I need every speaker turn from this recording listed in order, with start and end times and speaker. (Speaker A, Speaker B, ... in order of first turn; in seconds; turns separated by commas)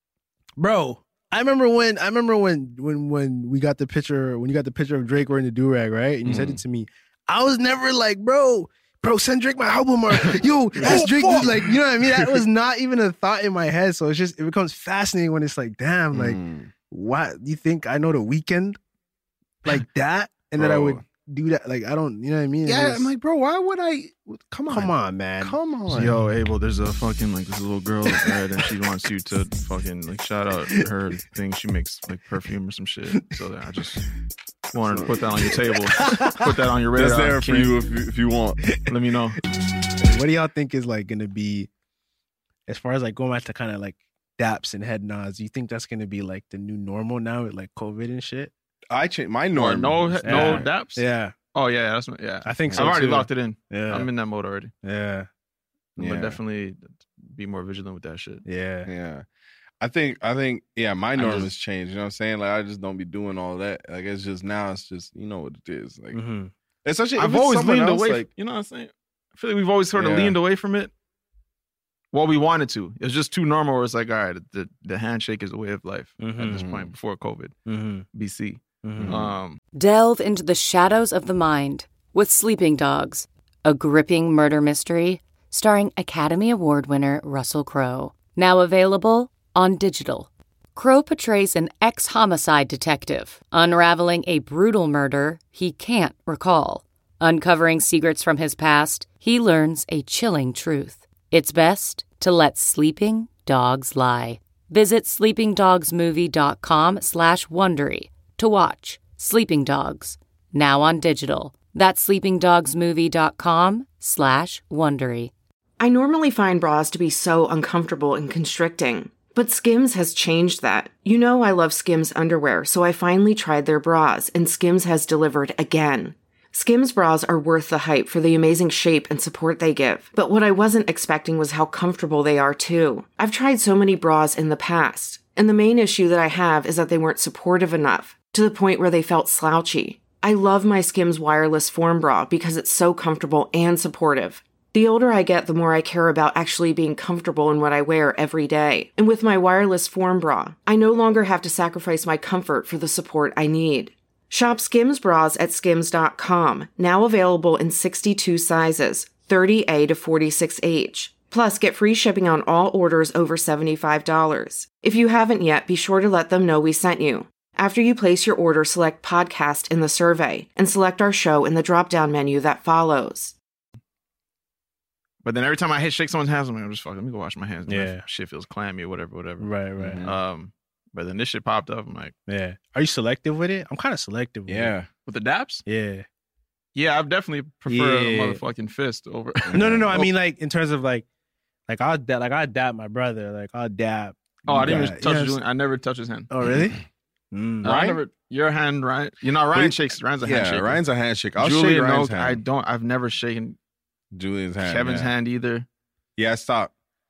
Speaker A: 0.6-18.8, Speaker B: 6.2-6.6, Speaker B: 10.8-12.4, Speaker B: 16.1-16.7, Speaker A: 19.6-23.1, Speaker B: 20.6-21.0, Speaker B: 22.6-26.1, Speaker A: 24.7-25.6, Speaker C: 25.9-34.0, Speaker C: 34.7-37.8, Speaker A: 36.0-36.4, Speaker B: 37.0-38.6, Speaker C: 38.9-39.4, Speaker A: 40.0-41.7, Speaker A: 42.7-48.5, Speaker B: 48.9-50.7, Speaker C: 49.5-54.7, Speaker A: 50.2-51.4, Speaker A: 52.5-54.1, Speaker B: 52.7-53.0, Speaker A: 54.8-55.3, Speaker C: 56.0-58.4, Speaker B: 56.0-56.4, Speaker A: 58.5-58.9, Speaker B: 58.9-59.2, Speaker B: 59.8-66.2, Speaker C: 61.2-61.5, Speaker A: 66.1-66.5, Speaker B: 66.8-68.3, Speaker C: 67.2-70.9, Speaker B: 70.0-70.4, Speaker C: 72.1-77.5, Speaker A: 76.2-76.6, Speaker B: 76.5-76.9, Speaker A: 77.7-78.0, Speaker C: 78.1-79.6, Speaker A: 78.8-79.2, Speaker B: 79.0-79.3, Speaker D: 79.8-115.3, Speaker E: 115.8-173.3, Speaker C: 175.2-179.5, Speaker A: 177.7-178.0, Speaker A: 179.4-180.0, Speaker B: 179.8-180.2, Speaker C: 180.0-182.1, Speaker A: 182.3-184.7, Speaker B: 184.5-184.9, Speaker C: 185.1-185.6, Speaker A: 185.7-186.1, Speaker C: 186.8-190.1, Speaker A: 187.7-188.4, Speaker B: 189.5-190.0, Speaker A: 189.5-191.1, Speaker A: 191.7-195.4, Speaker C: 194.5-196.3, Speaker A: 196.3-196.8, Speaker A: 197.3-197.7, Speaker B: 197.6-198.0, Speaker C: 197.6-200.8, Speaker B: 199.5-202.4, Speaker C: 201.4-203.6, Speaker B: 204.1-205.1, Speaker C: 204.6-205.7, Speaker B: 206.2-206.7